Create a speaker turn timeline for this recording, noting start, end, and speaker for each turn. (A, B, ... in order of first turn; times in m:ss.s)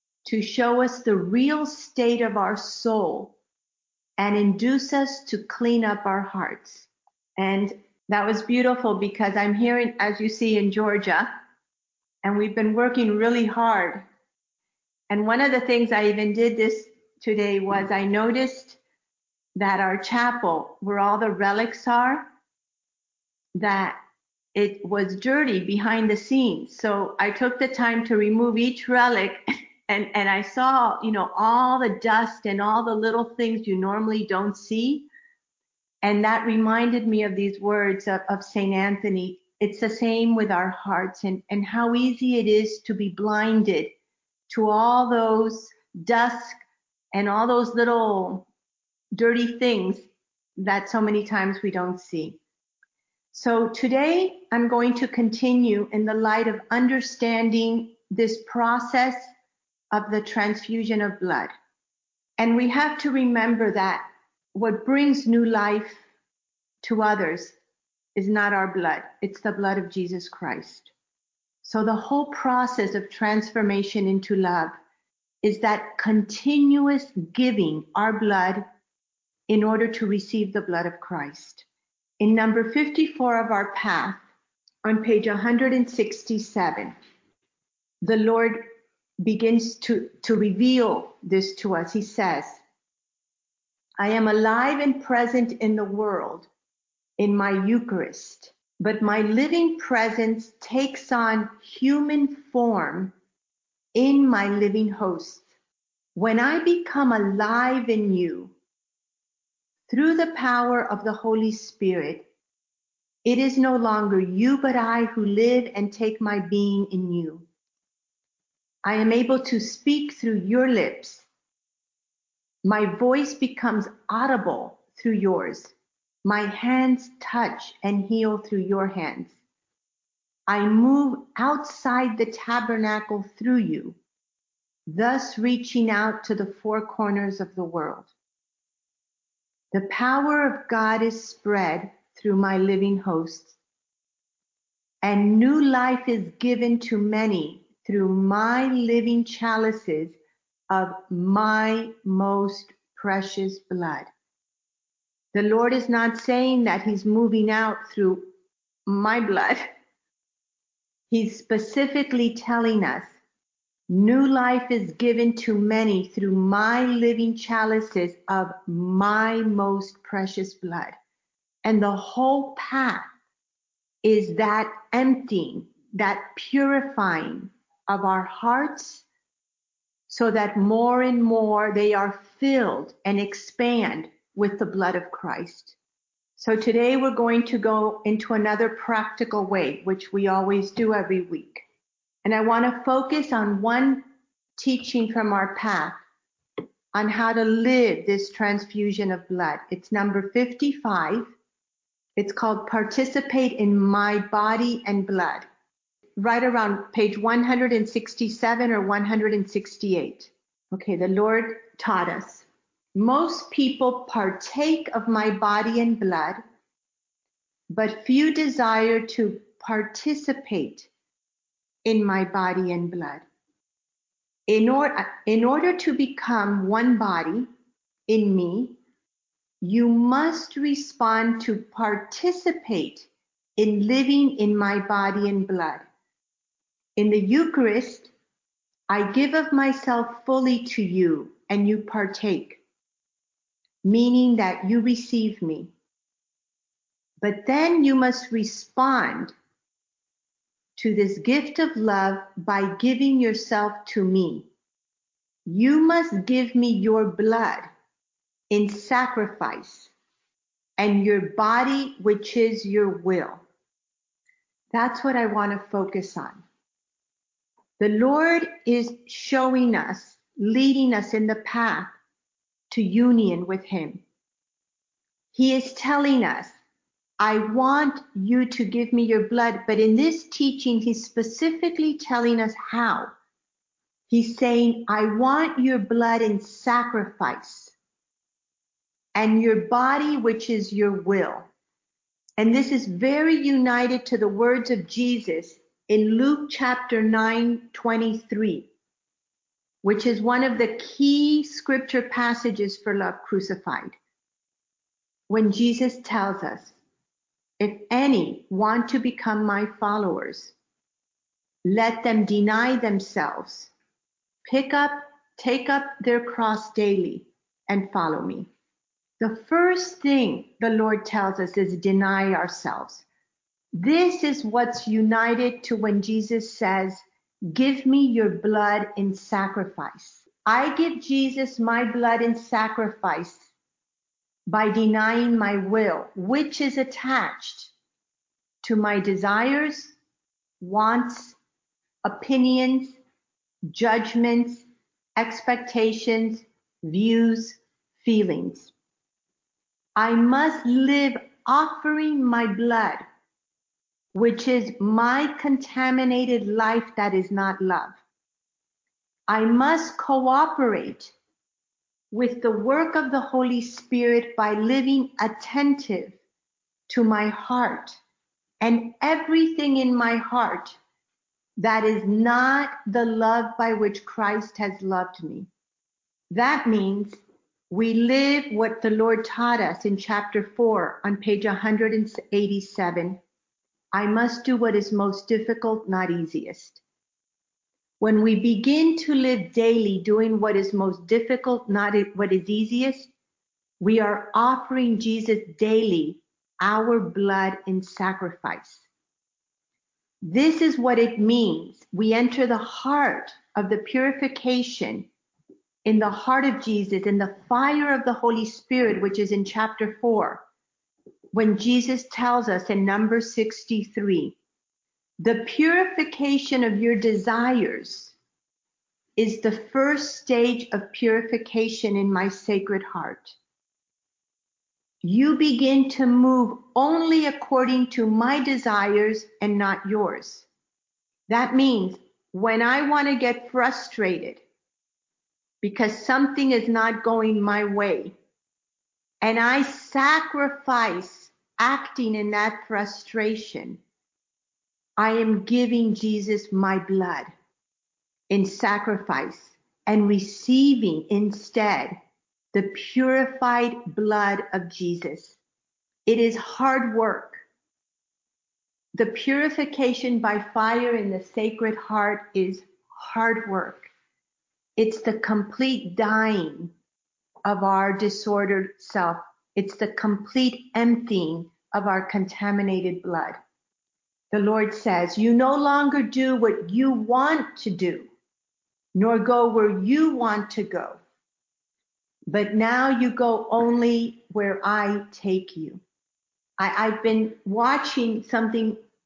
0:00.2-0:03.3 A
0:04.2-0:11.3 A
0:12.2-0:14.0 A
0:15.1-0:18.8 A
0:19.6-0:22.2 A
0:23.6-0:24.0 A
0:24.5-0:35.1 A
0:36.0-0:43.9 A
0:44.5-0:46.6 A
0:47.1-0:48.5 A
0:49.1-0:50.0 A
0:50.6-0:52.4 A
0:53.3-0:59.3 A
0:59.9-1:01.5 A
1:02.4-1:06.0 A
1:06.8-1:07.6 A
1:08.2-1:10.9 A
1:11.6-1:14.7 A
1:15.4-1:18.6 A
1:19.5-1:21.6 A
1:22.2-1:24.2 A
1:24.8-1:26.9 A
1:28.0-1:28.6 A
1:29.2-1:32.6 A
1:34.0-1:36.5 A
1:37.2-1:43.1 A
1:43.9-1:45.5 A
1:46.2-1:48.5 A
1:49.9-1:52.2 A
1:53.2-1:57.4 A
1:58.8-2:01.2 A
2:02.6-2:09.4 A
2:10.5-2:14.0 A
2:14.9-2:18.1 A
2:19.7-2:23.6 A
2:25.0-2:30.2 A
2:30.7-2:34.1 A
2:35.3-2:38.3 A
2:38.9-2:39.6 A
2:41.1-2:43.1 A
2:43.9-2:51.0 A
2:51.6-2:53.0 A
2:54.0-2:59.0 A
3:00.1-3:05.8 A
3:06.4-3:11.6 A
3:12.2-3:14.0 A
3:14.6-3:16.0 A
3:16.9-3:21.3 A
3:22.2-3:25.4 A
3:26.2-3:36.4 A
3:37.7-3:40.9 A
3:41.8-3:43.2 A
3:44.5-3:47.5 A
3:48.1-3:48.8 A
3:49.6-3:55.8 A
3:57.0-3:58.1 A
3:58.9-4:02.6 A
4:03.8-4:05.7 A
4:07.2-4:09.3 A
4:10.8-4:14.5 A
4:15.5-4:17.7 A
4:18.5-4:19.9 A
4:20.8-4:23.4 A
4:24.7-4:26.4 A
4:27.8-4:31.9 A
4:32.7-4:34.0 A
4:35.3-4:36.5 A
4:37.2-4:43.1 A
4:44.1-4:47.7 A
4:49.1-4:51.5 A
4:52.4-4:58.7 A
4:59.8-5:04.0 A
5:05.3-5:06.8 A
5:07.6-5:10.5 A
5:11.6-5:13.7 A
5:14.4-5:18.5 A
5:19.2-5:23.0 A
5:23.7-5:33.5 A
5:34.5-5:37.7 A
5:38.6-5:39.9 A
5:40.6-5:41.4 A
5:42.0-5:43.0 A
5:43.7-5:44.6 A
5:45.2-5:48.7 A
5:50.0-5:53.0 A
5:54.1-5:58.0 A
5:59.3-6:01.1 A
6:02.1-6:06.2 A
6:06.9-6:08.0 A
6:08.6-6:10.8 A
6:11.6-6:15.5 A
6:16.3-6:17.2 A
6:17.7-6:23.2 A
6:23.9-6:26.8 A
6:28.0-6:33.1 A
6:33.8-6:38.8 A
6:40.2-6:45.1 A
6:45.8-6:50.4 A
6:51.3-6:54.4 A
6:55.2-6:58.1 A
6:59.2-7:03.4 A
7:05.0-7:10.5 A
7:11.3-7:14.4 A
7:15.6-7:18.1 A
7:19.2-7:23.8 A
7:25.0-7:27.3 A
7:28.3-7:31.9 A
7:32.5-7:35.4 A
7:36.0-7:37.4 A
7:38.9-7:43.9 A
7:44.8-7:46.7 A
7:47.4-7:53.4 A
7:54.3-7:58.1 A
7:58.9-8:01.0 A
8:02.3-8:05.8 A
8:06.6-8:08.8 A